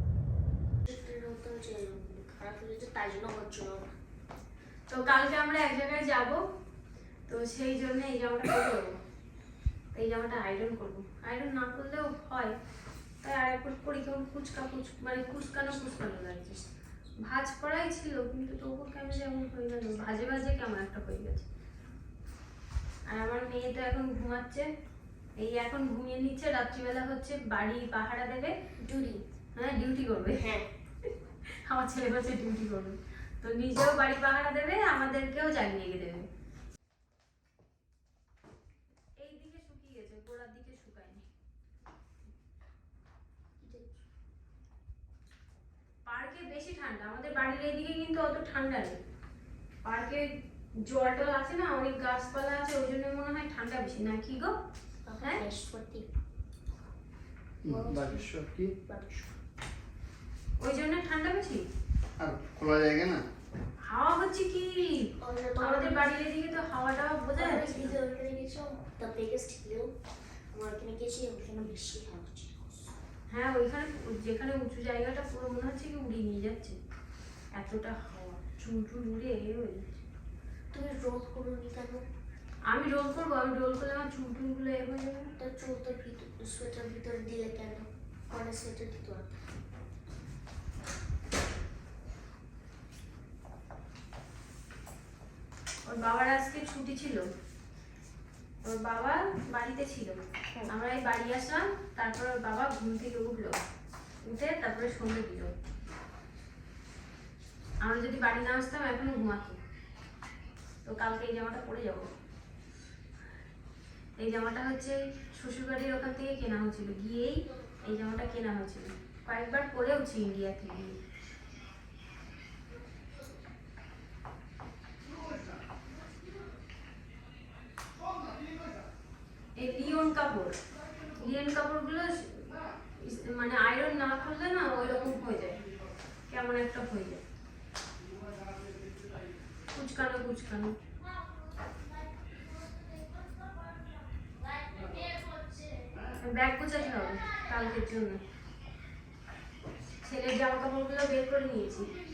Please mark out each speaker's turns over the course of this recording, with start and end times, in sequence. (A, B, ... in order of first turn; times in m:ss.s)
0:00.9-0:03.8 A
0:04.9-0:06.4 B
0:07.3-0:09.0 B
0:09.9-0:12.6 B
0:13.2-0:16.6 B
0:17.3-0:21.5 B
0:23.1-0:24.7 B
0:25.4-0:28.6 B
0:28.8-0:29.2 A
0:29.6-0:30.5 B
0:30.4-0:30.7 A
0:31.5-0:36.3 B
0:39.2-0:41.2 B
0:43.6-0:43.9 A
0:46.0-0:49.0 B
0:49.8-0:50.3 B
0:50.9-0:54.5 B
0:55.1-0:56.1 A
0:57.6-0:58.7 C
0:57.7-0:58.3 A
0:58.9-0:59.3 A
1:00.6-1:01.6 B
1:02.2-1:03.2 C
1:03.9-1:05.1 B
1:05.2-1:06.2 A
1:05.6-1:08.0 B
1:07.4-1:09.9 A
1:10.5-1:12.8 A
1:13.3-1:16.8 B
1:17.6-1:20.0 B
1:20.7-1:22.0 A
1:22.7-1:25.3 B
1:25.4-1:29.3 A
1:35.9-1:37.3 B
1:38.6-1:43.6 B
1:44.2-1:45.5 B
1:47.8-1:49.6 B
1:50.8-1:52.1 B
1:54.2-2:01.0 B
2:05.1-2:05.6 C
2:08.1-2:08.7 C
2:09.6-2:10.6 B
2:11.1-2:15.6 B
2:16.3-2:17.2 B
2:18.3-2:19.0 C
2:19.7-2:20.8 B
2:26.2-2:28.2 B
2:30.0-2:31.9 B